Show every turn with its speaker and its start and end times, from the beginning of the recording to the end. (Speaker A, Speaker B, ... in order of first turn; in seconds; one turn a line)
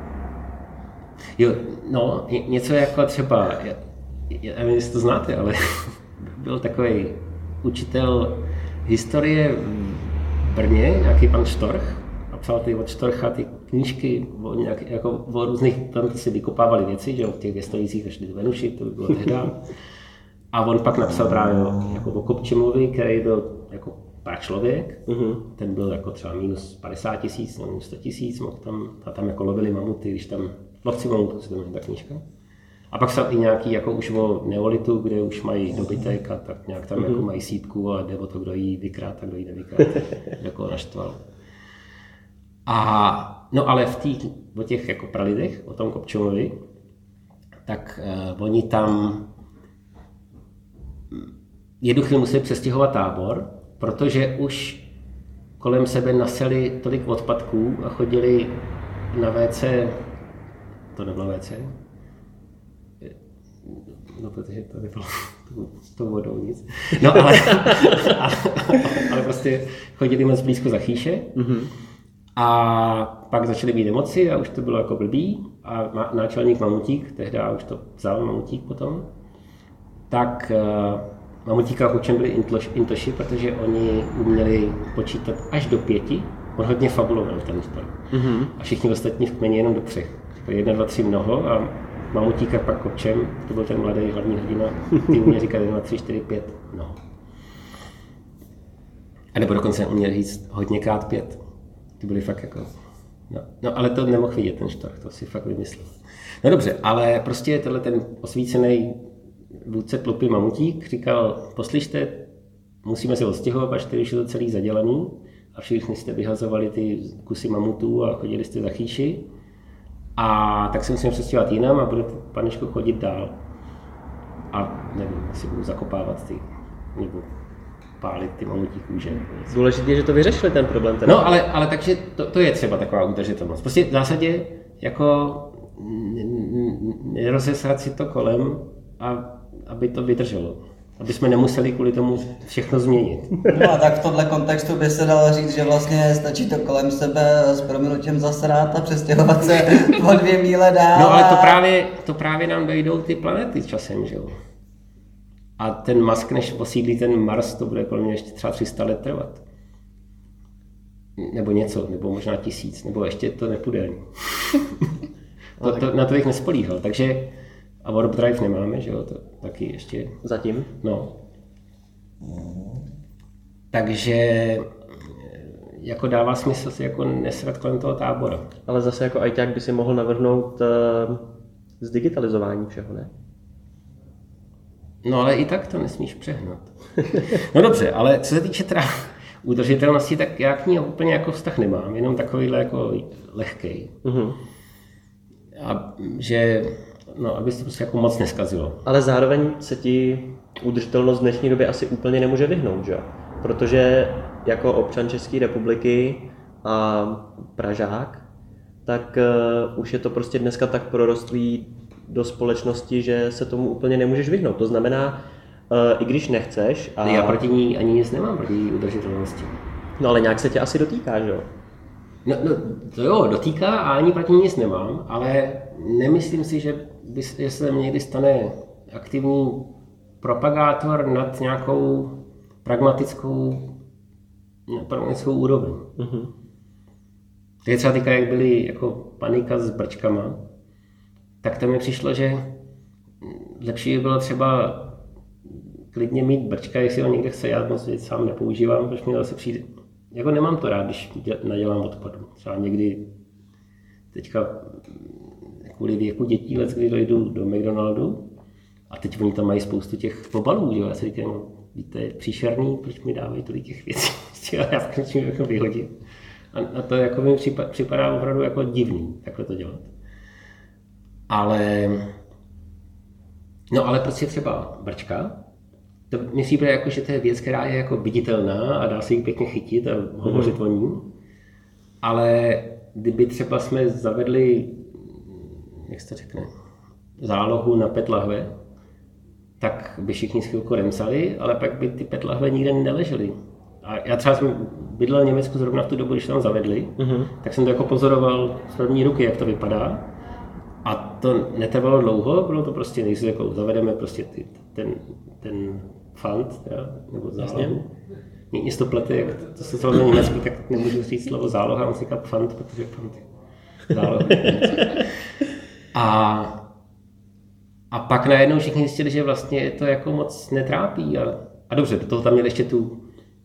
Speaker A: 1.4-19.7
Speaker A: 20.5-32.2
Speaker B: 25.1-25.4
Speaker A: 32.9-41.2
Speaker A: 42.7-46.6
Speaker A: 47.7-49.3
Speaker A: 51.8-54.9
Speaker A: 55.6-60.1
Speaker A: 60.9-61.8
Speaker A: 63.0-71.4
Speaker B: 67.3-68.1
Speaker B: 71.3-71.7
Speaker A: 72.4-79.1
Speaker A: 80.1-88.0
Speaker B: 88.1-88.5
Speaker A: 88.5-97.0
Speaker A: 99.3-101.4
Speaker A: 102.0-102.8
Speaker A: 103.3-109.0
Speaker A: 109.5-112.3
Speaker A: 112.8-119.3
Speaker A: 120.2-123.4
Speaker A: 124.5-127.3
Speaker A: 128.0-129.5
Speaker B: 129.5-131.3
Speaker A: 131.1-143.5
Speaker C: 143.4-151.6
Speaker A: 150.9-154.3
Speaker A: 155.6-159.4
Speaker A: 161.2-164.9
Speaker B: 165.6-165.9
Speaker A: 165.6-170.2
Speaker B: 170.2-170.7
Speaker A: 170.8-171.2
Speaker A: 173.7-178.5
Speaker B: 178.7-183.1
Speaker A: 185.0-193.9
Speaker B: 194.0-194.4
Speaker A: 195.6-198.8
Speaker B: 198.9-208.2
Speaker B: 208.9-217.4
Speaker A: 217.0-219.6
Speaker B: 220.0-221.5
Speaker A: 222.2-233.8
Speaker A: 234.7-235.9
Speaker B: 236.0-236.3
Speaker A: 237.7-240.4
Speaker A: 241.4-242.5
Speaker A: 243.2-245.0
Speaker A: 245.9-253.1
Speaker A: 254.1-258.3
Speaker A: 258.9-265.9
Speaker A: 266.5-269.9
Speaker A: 271.3-272.1
Speaker A: 273.7-275.4
Speaker A: 276.1-281.1
Speaker B: 280.2-280.6
Speaker A: 282.0-286.5
Speaker A: 287.2-288.5
Speaker A: 289.6-300.1
Speaker B: 297.0-297.3
Speaker A: 300.8-307.9
Speaker B: 307.4-307.7
Speaker A: 308.5-313.2
Speaker A: 313.9-315.1
Speaker A: 315.9-316.7
Speaker A: 317.9-323.0